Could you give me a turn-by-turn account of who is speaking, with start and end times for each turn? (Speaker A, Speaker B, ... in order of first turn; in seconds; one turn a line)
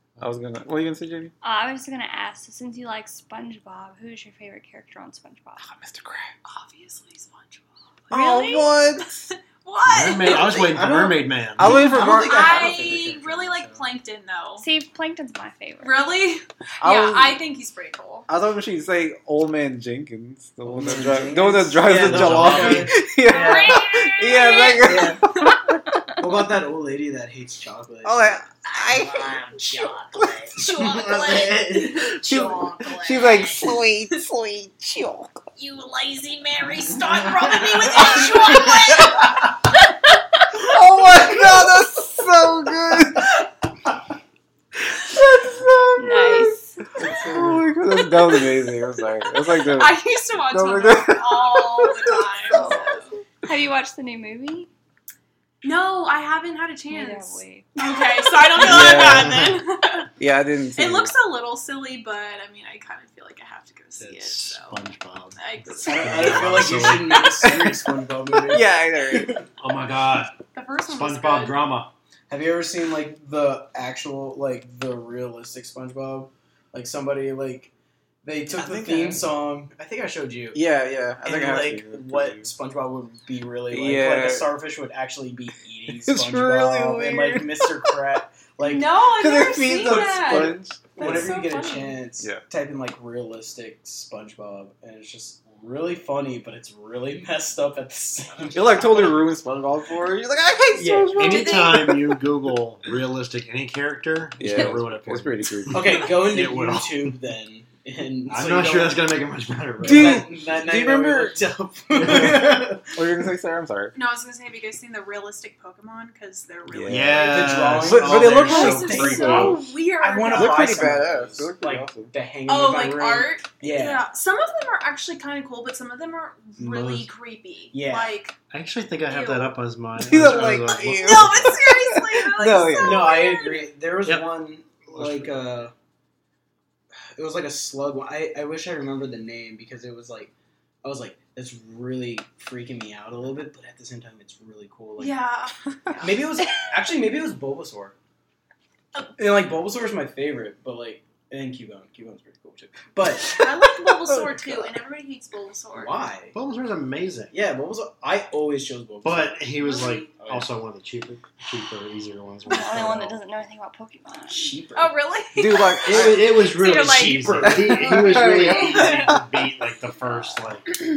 Speaker A: 0.2-1.3
Speaker B: 1.4-5.6
Speaker A: 5.6-6.3
Speaker C: 6.4-7.6
Speaker B: 8.1-8.7
Speaker A: 8.1-9.2
Speaker C: 8.3-10.8
Speaker D: 9.8-11.9
Speaker E: 10.5-13.8
Speaker A: 11.6-12.8
Speaker C: 12.0-14.7
Speaker B: 14.6-16.1
Speaker C: 15.8-18.3
Speaker A: 16.8-17.4
Speaker A: 18.3-26.1
Speaker E: 20.6-23.8
Speaker D: 21.8-22.9
Speaker C: 23.2-25.5
Speaker E: 24.7-25.2
Speaker E: 26.2-28.5
Speaker A: 28.0-30.5
Speaker C: 29.2-33.8
Speaker E: 30.5-32.7
Speaker A: 32.2-35.4
Speaker C: 35.5-39.7
Speaker A: 40.5-43.4
Speaker A: 44.9-52.8
Speaker B: 46.0-46.8
Speaker E: 47.0-47.7
Speaker C: 48.2-48.9
Speaker C: 49.6-53.1
Speaker B: 52.5-52.8
Speaker B: 53.4-54.7
Speaker C: 55.6-60.1
Speaker B: 56.9-58.3
Speaker A: 58.6-59.6
Speaker A: 60.2-61.1
Speaker C: 60.8-64.8
Speaker D: 64.0-67.3
Speaker C: 65.4-67.6
Speaker E: 65.9-69.4
Speaker A: 67.5-67.7
Speaker A: 68.5-69.4
Speaker D: 69.5-71.9
Speaker C: 70.5-71.6
Speaker E: 72.3-77.7
Speaker E: 78.2-80.6
Speaker A: 78.5-79.3
Speaker A: 80.5-82.5
Speaker E: 81.2-88.9
Speaker A: 83.7-84.5
Speaker A: 85.9-88.0
Speaker C: 88.6-92.0
Speaker A: 89.0-91.4
Speaker E: 89.8-99.2
Speaker A: 92.2-92.5
Speaker A: 98.5-102.2
Speaker E: 100.7-101.3
Speaker D: 101.1-107.2
Speaker C: 101.3-101.8
Speaker A: 104.4-106.2
Speaker E: 105.7-109.1
Speaker D: 108.2-110.7
Speaker A: 109.8-111.4
Speaker E: 109.8-113.0
Speaker D: 112.0-112.6
Speaker A: 112.9-114.0
Speaker C: 113.9-117.7
Speaker A: 116.7-119.6
Speaker D: 116.9-119.6
Speaker E: 117.2-124.0
Speaker C: 118.3-120.8
Speaker A: 120.3-122.1
Speaker C: 122.5-128.3
Speaker D: 126.6-127.1
Speaker E: 127.7-128.1
Speaker D: 128.5-131.6
Speaker C: 129.1-129.6
Speaker A: 130.0-133.2
Speaker C: 130.5-133.7
Speaker E: 132.7-135.7
Speaker D: 134.9-135.4
Speaker E: 137.1-140.3
Speaker E: 140.8-145.2
Speaker C: 145.0-146.2
Speaker E: 145.9-147.9
Speaker E: 149.1-153.5
Speaker C: 153.3-156.0
Speaker A: 154.2-154.7
Speaker E: 155.7-156.3
Speaker D: 156.3-157.3
Speaker E: 157.3-160.5
Speaker D: 159.0-163.2
Speaker C: 159.6-160.1
Speaker B: 162.4-164.6
Speaker E: 164.3-164.9
Speaker C: 164.8-169.1
Speaker A: 165.3-166.3
Speaker D: 165.9-170.7
Speaker A: 167.5-169.1
Speaker E: 167.8-168.3